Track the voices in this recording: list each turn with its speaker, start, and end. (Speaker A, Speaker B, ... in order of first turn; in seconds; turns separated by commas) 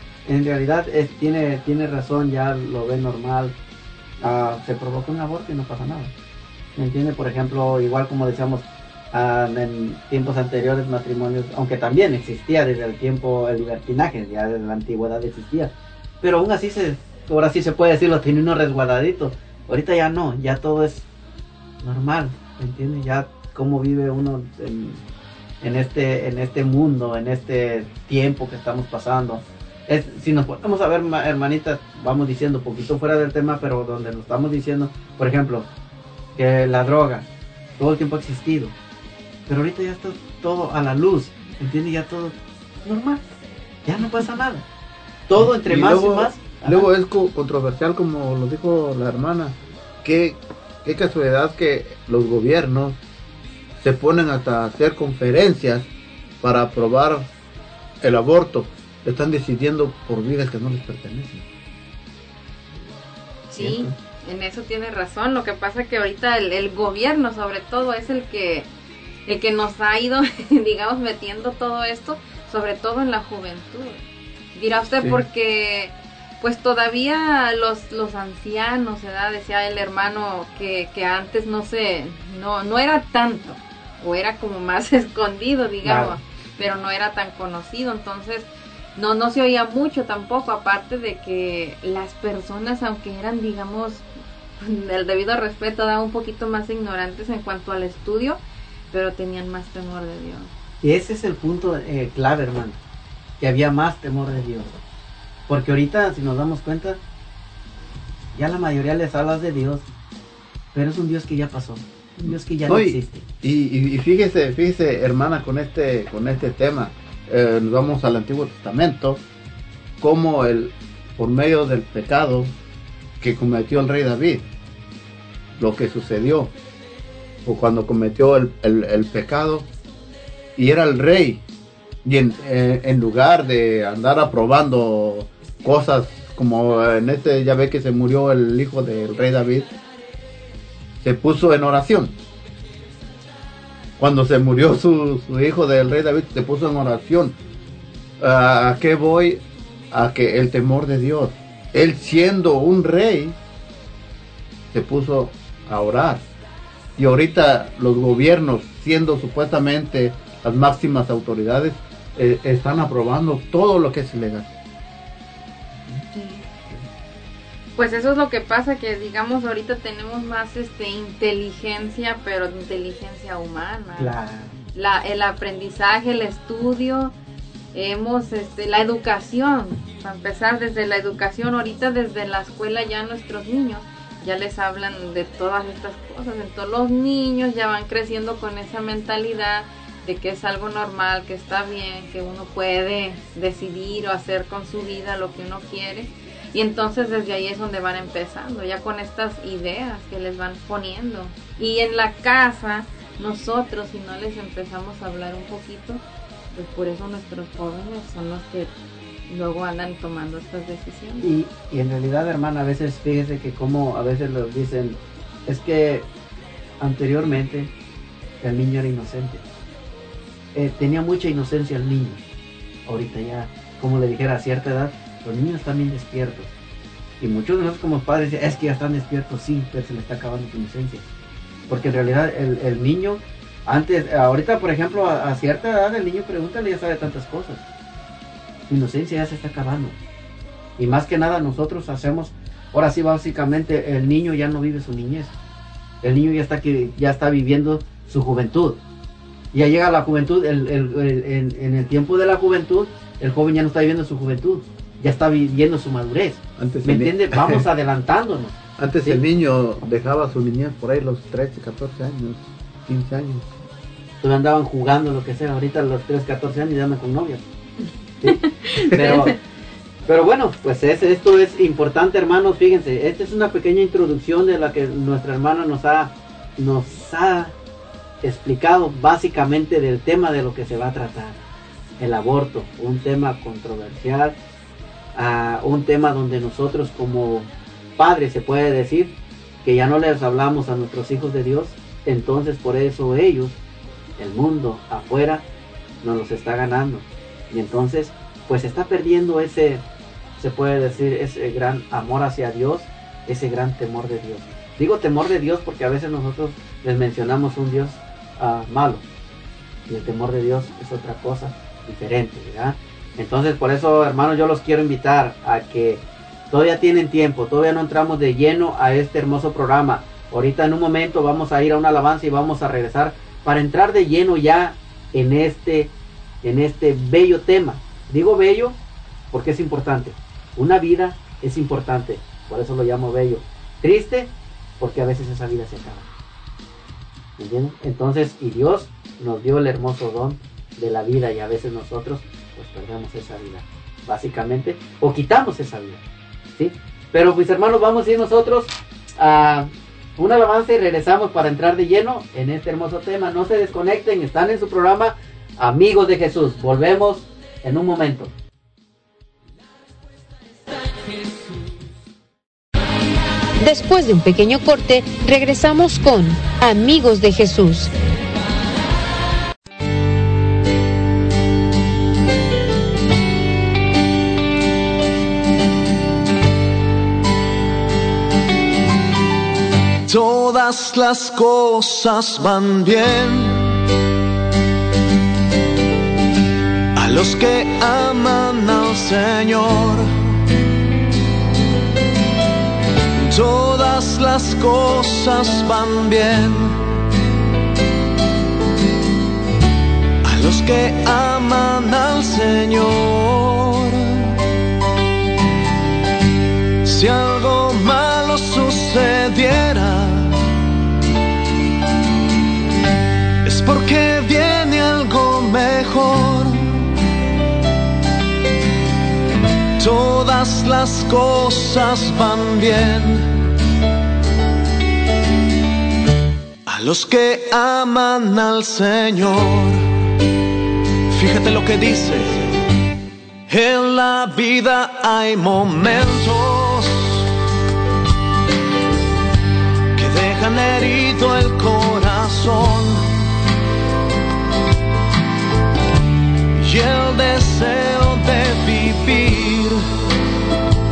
Speaker A: 0.2-3.5, Speaker A: 4.2-6.1, Speaker A: 6.8-21.0, Speaker A: 21.8-25.0, Speaker A: 25.6-35.7, Speaker A: 36.4-37.3, Speaker A: 37.8-38.7, Speaker A: 39.5-43.2, Speaker A: 43.8-44.6, Speaker A: 45.3-46.9, Speaker B: 45.4-53.0, Speaker B: 53.8-55.9, Speaker B: 56.4-57.3, Speaker B: 58.0-61.5, Speaker C: 63.5-68.7, Speaker A: 63.6-63.9, Speaker C: 69.2-74.0, Speaker C: 74.5-94.1, Speaker A: 85.8-86.2, Speaker C: 94.6-98.4, Speaker C: 98.9-100.5, Speaker A: 100.8-102.8, Speaker A: 103.4-104.8, Speaker A: 105.5-107.0, Speaker A: 108.3-109.8, Speaker A: 110.7-113.2, Speaker B: 112.3-119.2, Speaker B: 120.0-122.5, Speaker B: 123.2-124.4, Speaker B: 125.6-126.5, Speaker B: 127.4-129.7, Speaker B: 130.6-131.4, Speaker B: 132.0-139.7, Speaker B: 141.0-142.2, Speaker B: 144.0-147.3, Speaker B: 148.2-149.4, Speaker B: 149.9-153.4, Speaker B: 154.7-156.3, Speaker B: 157.0-164.5, Speaker A: 165.8-166.8, Speaker C: 167.8-174.1, Speaker A: 174.0-174.6, Speaker C: 174.7-177.1, Speaker C: 177.7-208.7, Speaker C: 209.3-211.3, Speaker A: 211.2-216.1, Speaker A: 216.8-217.7, Speaker A: 218.4-219.4, Speaker A: 220.5-222.2, Speaker A: 222.8-226.5, Speaker A: 227.2-231.1, Speaker A: 231.7-237.6, Speaker A: 238.7-240.0, Speaker A: 240.8-245.3, Speaker A: 246.0-248.8, Speaker A: 249.5-259.2, Speaker B: 256.6-257.7, Speaker B: 258.8-263.5, Speaker A: 264.2-267.4, Speaker A: 268.2-269.4, Speaker C: 268.2-269.3, Speaker A: 270.1-277.5, Speaker A: 278.2-281.4, Speaker A: 282.0-284.4, Speaker A: 285.1-293.6, Speaker A: 294.2-295.4, Speaker A: 296.0-299.8, Speaker A: 300.4-309.0, Speaker A: 309.9-328.8, Speaker A: 329.3-336.1, Speaker A: 337.4-346.0, Speaker A: 346.6-358.3, Speaker D: 363.6-367.9, Speaker E: 380.1-383.7, Speaker E: 386.9-390.1, Speaker E: 393.2-396.8, Speaker E: 400.2-404.3, Speaker E: 406.8-410.4, Speaker E: 413.4-416.8, Speaker E: 419.8-423.3, Speaker E: 426.6-429.8, Speaker E: 431.1-432.5, Speaker E: 433.5-437.2, Speaker E: 439.9-443.1, Speaker E: 446.5-449.8